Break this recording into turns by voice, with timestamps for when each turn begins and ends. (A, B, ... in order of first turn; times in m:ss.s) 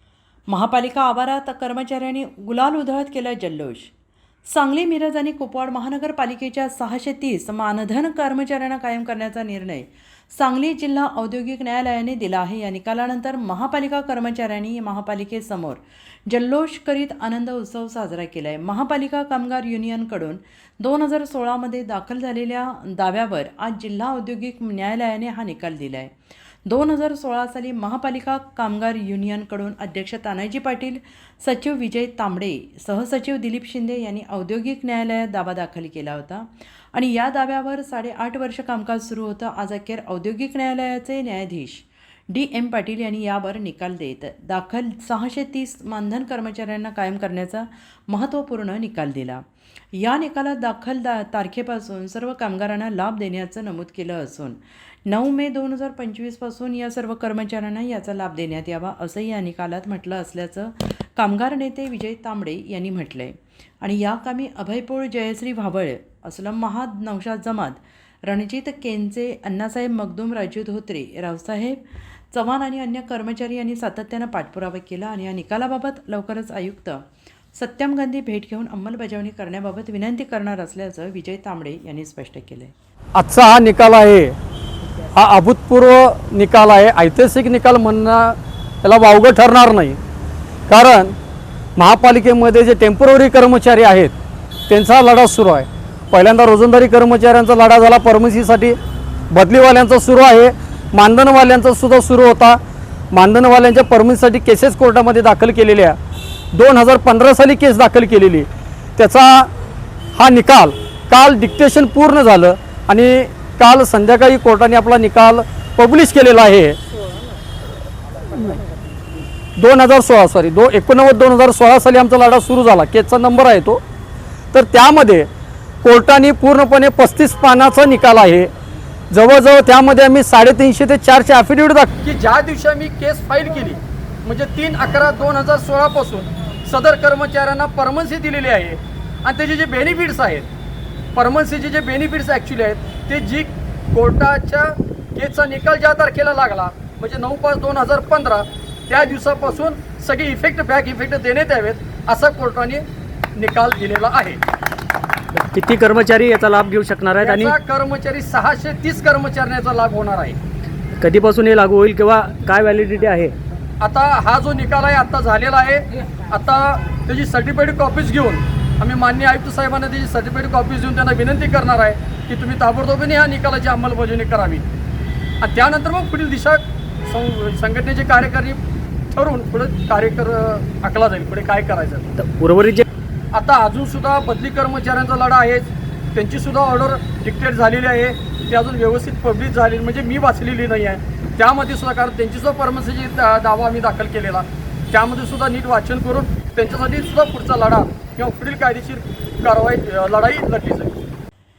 0:00.5-0:03.9 A
0:04.5-0:26.1 A
0:26.6-1:11.8 A
1:12.3-1:22.7 A
1:23.2-1:24.4 B
1:25.1-1:30.0 B
1:30.7-1:31.1 B
1:31.8-1:34.1 B
1:34.7-1:38.8 B
1:39.3-1:42.6 B
1:43.1-1:46.0 B
1:46.5-1:49.5 B
1:50.2-1:56.8 B
1:59.6-2:03.8 B
2:04.5-2:05.3 B
2:05.8-2:08.5 B
2:09.1-2:20.5 B
2:21.1-2:32.8 B
2:33.4-2:34.4 B
2:35.4-2:37.5 C
2:37.2-2:40.4 B
2:41.0-2:43.3 C
2:43.8-2:54.6 B
2:55.4-2:58.6 B
2:59.1-3:02.1 B
3:02.2-3:02.8 C
3:03.3-3:21.0 B